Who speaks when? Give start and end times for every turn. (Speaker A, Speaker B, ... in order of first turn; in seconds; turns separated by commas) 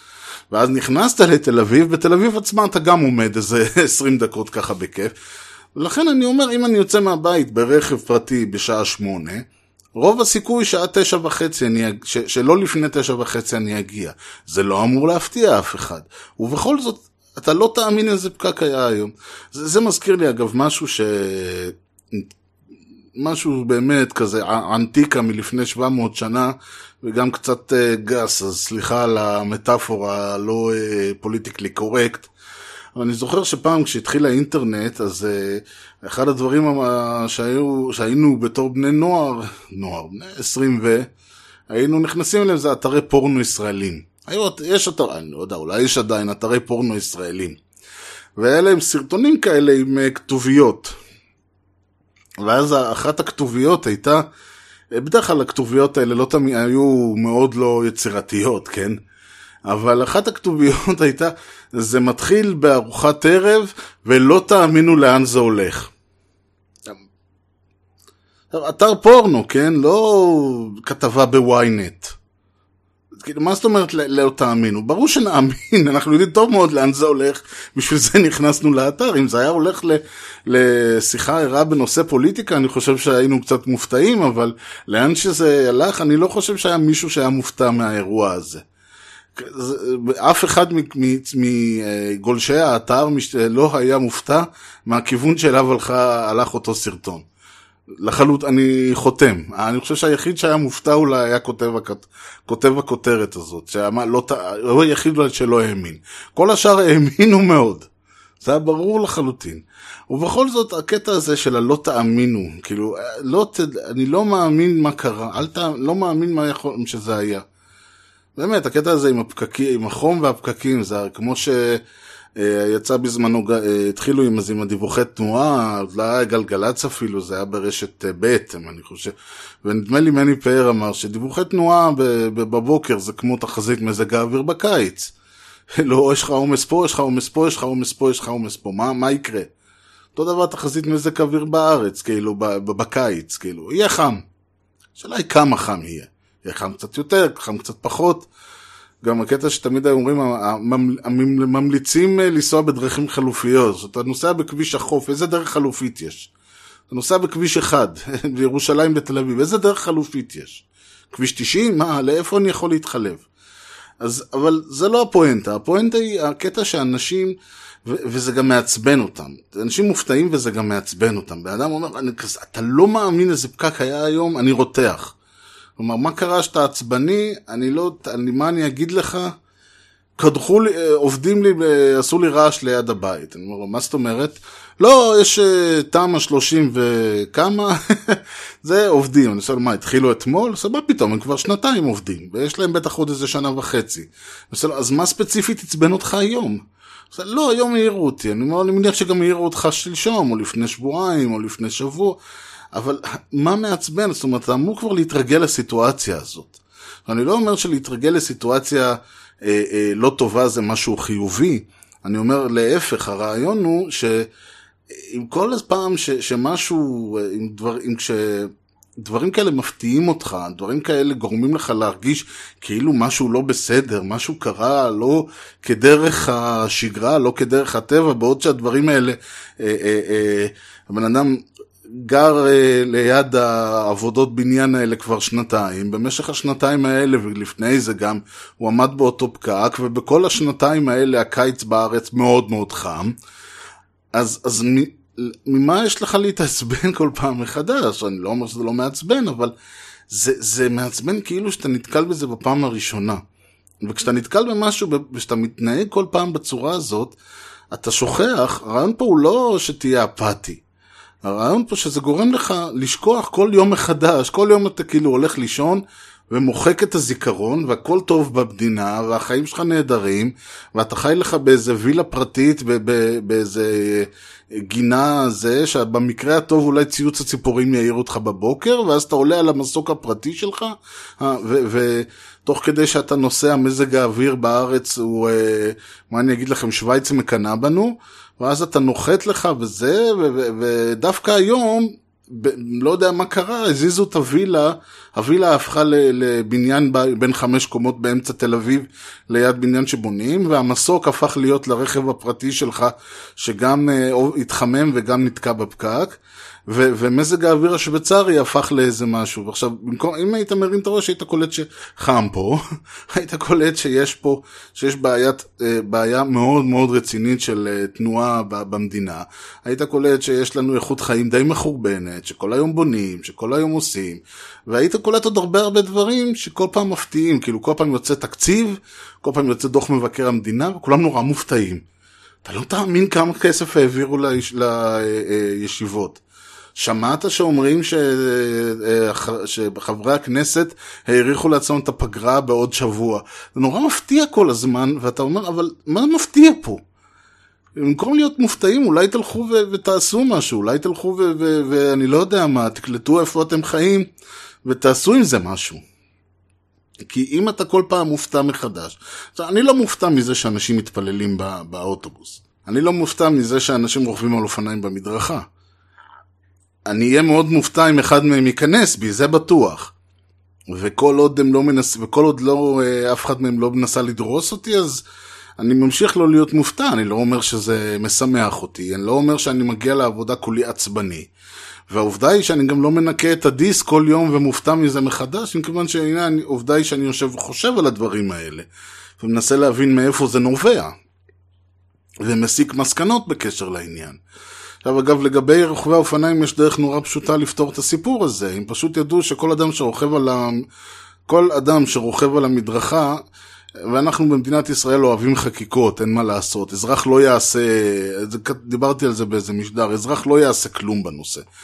Speaker A: 0.5-5.1, Speaker A: 5.7-22.3, Speaker A: 23.2-32.3, Speaker A: 33.0-41.1, Speaker A: 41.7-47.6, Speaker A: 48.4-50.9, Speaker A: 52.4-54.2, Speaker A: 55.0-59.0, Speaker A: 59.7-65.9, Speaker A: 68.5-72.1, Speaker A: 73.2-88.6, Speaker A: 89.3-97.2, Speaker A: 98.0-107.9, Speaker A: 108.4-117.4, Speaker A: 118.3-121.8, Speaker A: 122.4-129.1, Speaker A: 129.6-135.1, Speaker A: 135.8-139.5, Speaker A: 140.1-144.2, Speaker A: 144.9-148.3, Speaker A: 149.0-156.3, Speaker A: 156.9-163.2, Speaker A: 164.0-175.1, Speaker A: 175.8-179.3, Speaker A: 180.2-196.6, Speaker A: 197.1-202.2, Speaker A: 202.7-214.3, Speaker A: 214.9-243.1, Speaker A: 244.1-249.5, Speaker A: 250.1-253.2, Speaker A: 253.8-257.1, Speaker A: 257.7-260.6, Speaker A: 261.2-312.6, Speaker A: 313.1-331.8, Speaker A: 332.4-336.2, Speaker A: 336.8-346.8, Speaker A: 347.8-354.1, Speaker A: 354.6-355.8, Speaker A: 357.1-365.5, Speaker A: 366.9-369.9, Speaker A: 370.7-375.0, Speaker A: 375.6-381.3, Speaker A: 381.9-388.7, Speaker A: 389.2-390.9, Speaker A: 392.2-394.2, Speaker A: 394.8-400.6, Speaker A: 401.3-403.2, Speaker A: 403.9-411.4